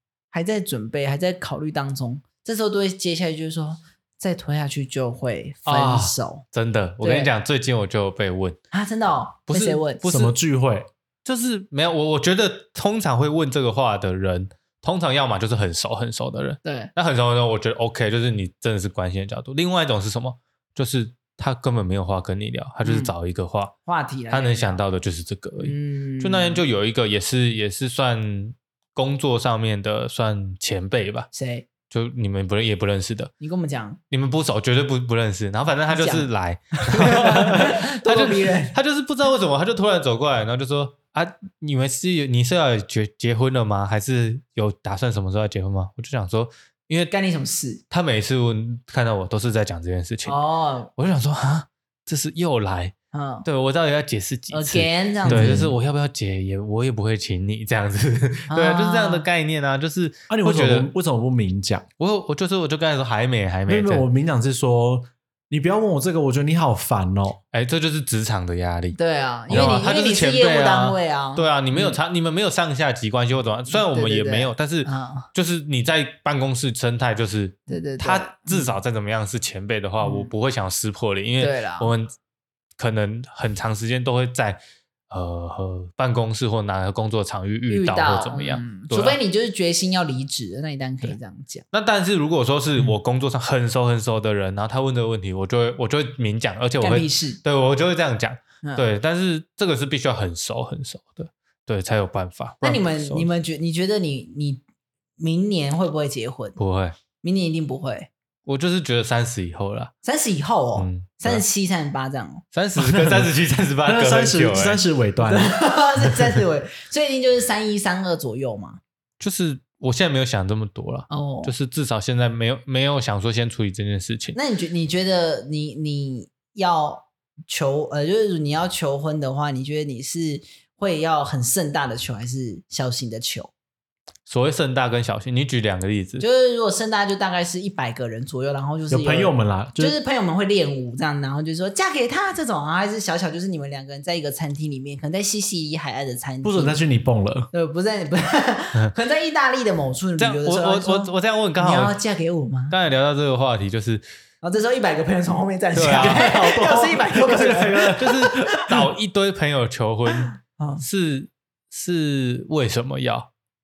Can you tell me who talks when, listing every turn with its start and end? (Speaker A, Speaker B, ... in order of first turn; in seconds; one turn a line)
Speaker A: 0.3-6.4
Speaker B: 5.7-8.6
Speaker A: 7.0-7.3
Speaker A: 8.7-10.1
Speaker B: 9.5-10.3
Speaker C: 10.0-10.9
Speaker B: 11.2-23.7
Speaker A: 16.6-16.9
Speaker A: 22.8-23.1
Speaker A: 23.9-24.8
Speaker B: 24.3-31.3
Speaker A: 25.6-26.6
Speaker A: 31.3-31.7
Speaker B: 31.9-33.3
Speaker A: 33.4-34.0
Speaker B: 34.1-47.1
Speaker A: 35.9-36.3
Speaker A: 36.8-38.8
Speaker A: 47.1-47.8
Speaker B: 47.9-50.4
Speaker A: 50.2-50.9
Speaker B: 51.0-60.9
Speaker A: 53.1-53.5
Speaker A: 54.5-55.7
Speaker C: 55.2-55.7
Speaker A: 58.5-59.2
Speaker C: 60.3-61.9
Speaker B: 62.0-64.0
Speaker C: 63.7-67.4
Speaker B: 67.5-69.0
Speaker A: 69.0-72.0
Speaker B: 69.5-82.1
Speaker C: 69.5-69.8
Speaker A: 73.7-75.3
Speaker A: 77.7-78.7
Speaker A: 80.0-80.3
Speaker A: 81.4-81.9
Speaker B: 82.8-89.2
Speaker A: 87.7-91.6
Speaker B: 91.7-103.3
Speaker A: 96.8-97.4
Speaker A: 102.6-104.6
Speaker A: 105.2-106.6
Speaker B: 106.6-107.0
Speaker A: 107.2-108.1
Speaker B: 108.5-109.9
Speaker A: 110.0-112.4
Speaker B: 110.8-111.4
Speaker B: 112.5-114.8
Speaker C: 112.8-113.3
Speaker C: 113.8-115.5
Speaker A: 115.2-118.8
Speaker B: 119.2-124.4
Speaker A: 121.1-121.5
Speaker A: 124.3-133.5
Speaker B: 134.3-136.2
Speaker A: 136.2-146.8
Speaker C: 138.9-140.0
Speaker C: 146.4-147.5
Speaker A: 147.5-152.8
Speaker B: 150.2-152.0
Speaker B: 152.7-154.0
Speaker A: 154.4-158.4
Speaker B: 155.7-156.3
Speaker C: 155.8-158.9
Speaker B: 158.0-163.3
Speaker A: 160.6-160.8